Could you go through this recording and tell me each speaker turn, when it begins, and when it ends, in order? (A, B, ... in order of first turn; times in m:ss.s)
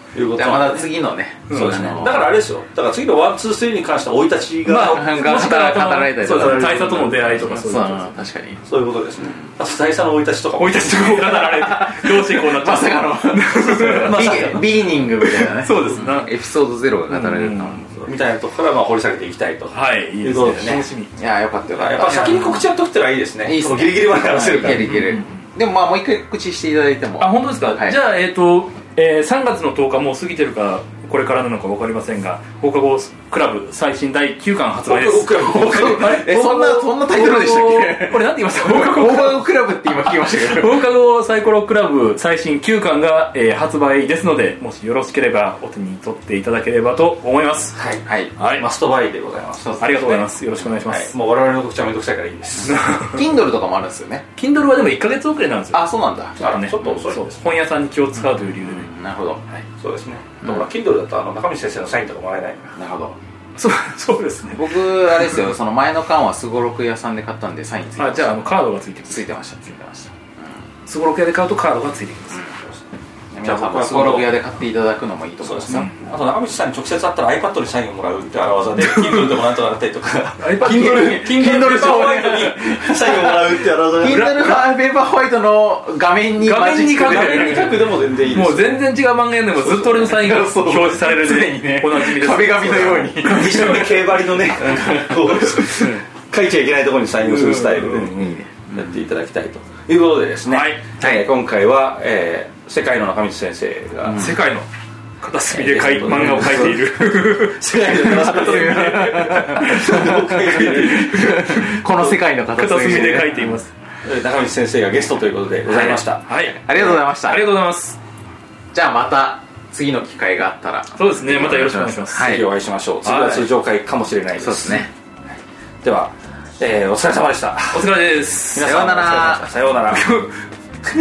0:00.1-0:00.9 A
0:00.3-0:02.3 B
0:01.5-0:02.0 C
0:01.5-0:05.4 A
0:04.7-0:08.1 C
0:04.8-0:08.6 B
0:06.2-0:07.1 A
0:08.6-0:11.2 A
0:10.6-0:16.4 C
0:11.0-0:17.9 B
0:14.0-0:14.6 A
0:17.1-0:17.8 C
0:17.9-0:20.9 A
0:19.7-0:21.1 C
0:20.6-0:22.7 B
0:21.7-0:24.9 A
0:23.5-0:28.0 B
0:24.8-0:25.3 C
0:27.2-0:47.8 C
0:34.8-0:36.8 A
0:35.3-0:40.8 B
0:47.8-0:50.2 A
0:48.1-0:48.3 B
0:48.4-0:48.7 C
0:49.6-0:50.1 B
0:49.8-0:51.1 C
0:50.9-0:52.8 A
0:52.6-0:54.3 B
0:52.6-0:53.2 C
0:54.4-0:58.9 C
0:55.7-0:56.4 B
0:56.4-0:57.3 A
0:58.3-0:59.4 B
0:59.8-1:02.8 A
1:02.8-1:03.2 B
1:03.6-1:04.7 C
1:04.5-1:08.5 B
1:08.0-1:09.4 C
1:09.1-1:10.6 B
1:10.9-1:12.4 C
1:13.3-1:15.9 B
1:13.4-1:14.4 A
1:15.4-1:24.6 A
1:18.8-1:19.3 C
1:20.4-1:21.2 C
1:20.6-1:27.8 B
1:26.4-1:33.9 C
1:26.8-1:28.8 A
1:29.6-1:34.0 B
1:33.2-1:44.3 A
1:34.7-1:35.7 B
1:37.2-1:38.4 C
1:38.0-1:38.8 B
1:40.5-1:40.9 C
1:41.0-1:41.3 B
1:44.1-1:44.4 B
1:44.1-1:44.7 C
1:45.2-1:51.8 C
1:45.5-1:51.5 A
1:48.0-1:53.6 B
1:52.5-1:53.7 C
1:54.0-1:56.2 A
1:55.7-1:58.0 C
1:56.6-1:57.6 B
1:58.7-2:02.5 B
2:01.0-2:02.4 C
2:02.1-2:04.9 A
2:03.0-2:03.4 C
2:04.4-2:04.9 B
2:05.8-2:07.9 A
2:07.7-2:08.9 C
2:08.5-2:10.1 A
2:08.6-2:09.5 B
2:09.9-2:10.4 C